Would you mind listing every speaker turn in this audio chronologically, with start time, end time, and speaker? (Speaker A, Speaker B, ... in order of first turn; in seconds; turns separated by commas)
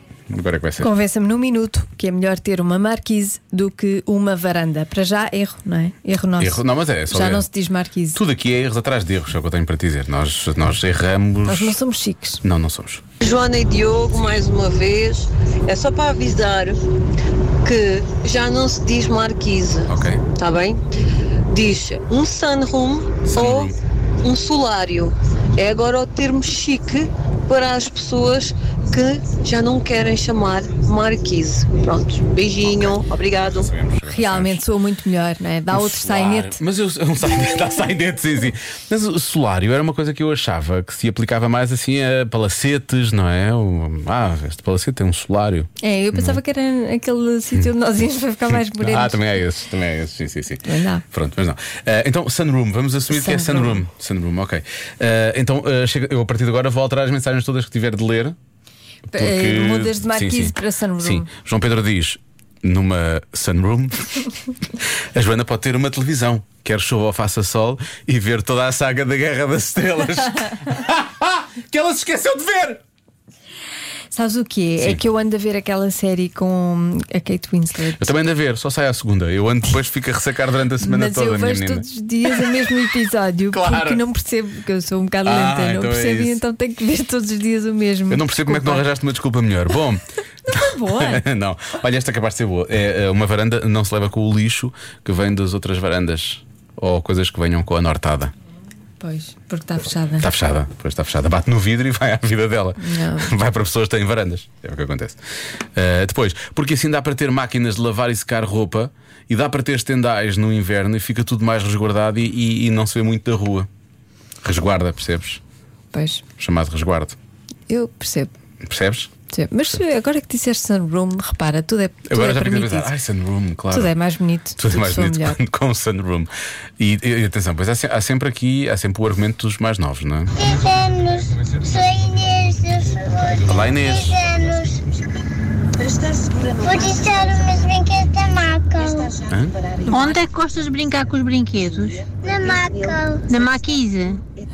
Speaker A: 0.3-0.9, Speaker B: 0.8-8.2, Speaker A: 6.4-7.5, Speaker A: 8.1-11.8, Speaker B: 11.4-12.4, Speaker A: 12.4-13.0, Speaker C: 13.2-16.8, Speaker C: 17.6-20.8, Speaker A: 19.9-20.2, Speaker C: 21.5-33.7, Speaker A: 23.3-23.8, Speaker A: 33.5-34.7, Speaker B: 34.1-36.6, Speaker A: 35.7-46.4, Speaker B: 45.8-49.2, Speaker A: 48.5-58.4, Speaker B: 50.6-51.0, Speaker B: 53.1-53.8, Speaker A: 59.1-64.1, Speaker B: 59.1-61.3, Speaker A: 64.8-72.8, Speaker B: 74.1-78.0, Speaker A: 78.0-82.7, Speaker B: 80.8-88.8, Speaker A: 83.5-84.0, Speaker A: 85.2-86.4, Speaker A: 88.1-98.3, Speaker B: 90.5-91.2, Speaker B: 99.0-100.3, Speaker A: 100.2-105.2, Speaker B: 102.8-103.3, Speaker A: 105.7-113.7, Speaker A: 114.4-115.4, Speaker B: 115.9-116.2, Speaker A: 116.4-117.2, Speaker B: 117.7-118.3, Speaker A: 118.6-119.1, Speaker B: 119.3-122.9, Speaker A: 122.1-123.9, Speaker B: 123.7-125.4, Speaker A: 124.6-130.3, Speaker D: 130.4-134.8, Speaker A: 133.2-134.4, Speaker D: 136.6-139.2, Speaker A: 139.3-139.7, Speaker E: 139.8-142.1, Speaker D: 142.2-143.2, Speaker E: 143.3-144.2